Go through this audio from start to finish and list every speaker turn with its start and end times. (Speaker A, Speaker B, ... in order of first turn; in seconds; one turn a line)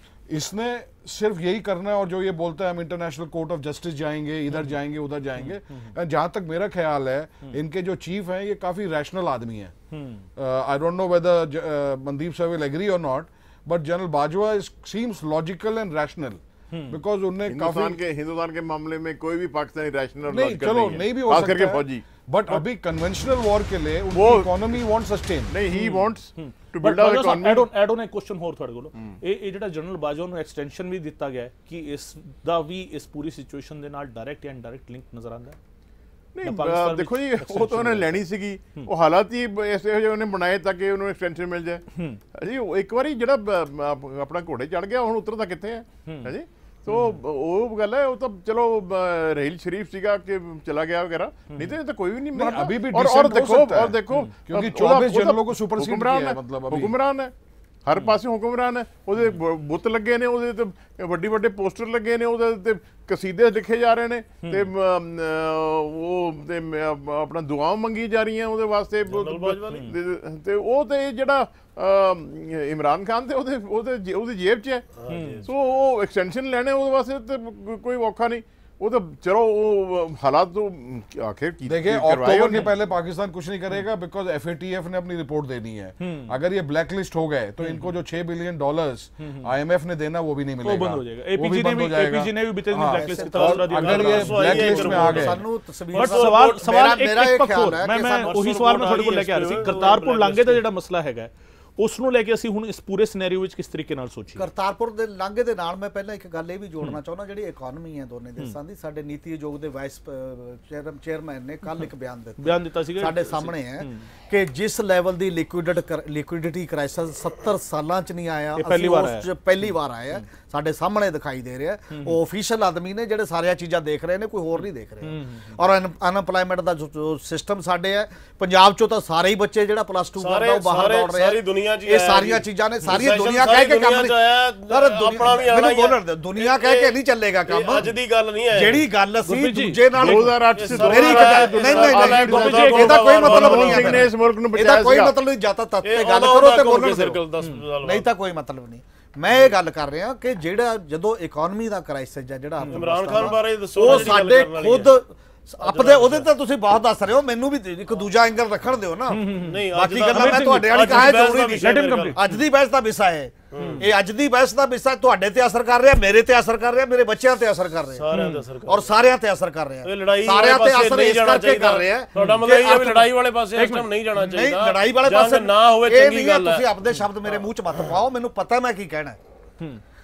Speaker A: 0.3-9.7
Speaker B: 5.4-5.9
Speaker B: 9.9-10.3
Speaker A: 10.4-18.0
Speaker B: 16.7-17.0
Speaker C: 17.5-22.1
Speaker A: 20.3-25.6
Speaker C: 24.1-24.5
Speaker C: 25.5-27.7
Speaker B: 25.7-35.6
Speaker C: 36.4-57.3
Speaker B: 36.4-38.2
Speaker B: 41.9-42.2
Speaker B: 46.1-46.3
Speaker B: 46.9-47.2
Speaker A: 52.3-56.9
Speaker C: 57.9-74.9
Speaker D: 69.1-69.9
Speaker D: 75.0-75.5
Speaker B: 75.1-75.5
Speaker C: 75.5-82.7
Speaker A: 81.7-95.4
Speaker B: 86.0-86.3
Speaker B: 87.6-87.9
Speaker B: 89.2-89.5
Speaker B: 90.6-95.4
Speaker E: 92.9-93.7
Speaker D: 93.5-96.7
Speaker E: 94.4-98.3
Speaker B: 95.9-104.5
Speaker D: 98.2-100.6
Speaker E: 104.4-134.1
Speaker B: 112.4-114.1
Speaker B: 118.6-120.2
Speaker B: 121.9-122.2
Speaker B: 125.0-125.5
Speaker D: 130.2-136.9
Speaker B: 132.9-133.2
Speaker E: 134.7-137.9
Speaker D: 137.5-138.8
Speaker E: 138.5-147.2
Speaker B: 139.2-141.0
Speaker C: 140.0-145.2
Speaker D: 140.0-144.1
Speaker B: 141.8-144.0
Speaker D: 145.8-148.1
Speaker E: 147.8-168.1
Speaker B: 152.6-153.4
Speaker D: 152.7-155.0
Speaker B: 153.9-154.3
Speaker D: 155.6-156.3
Speaker B: 159.1-162.4
Speaker D: 159.4-162.2
Speaker D: 163.5-163.8
Speaker B: 163.6-163.9
Speaker D: 168.0-169.0
Speaker B: 168.1-168.4
Speaker E: 168.7-173.1
Speaker D: 169.8-176.7
Speaker B: 172.2-172.4
Speaker B: 173.6-173.8
Speaker E: 174.1-179.2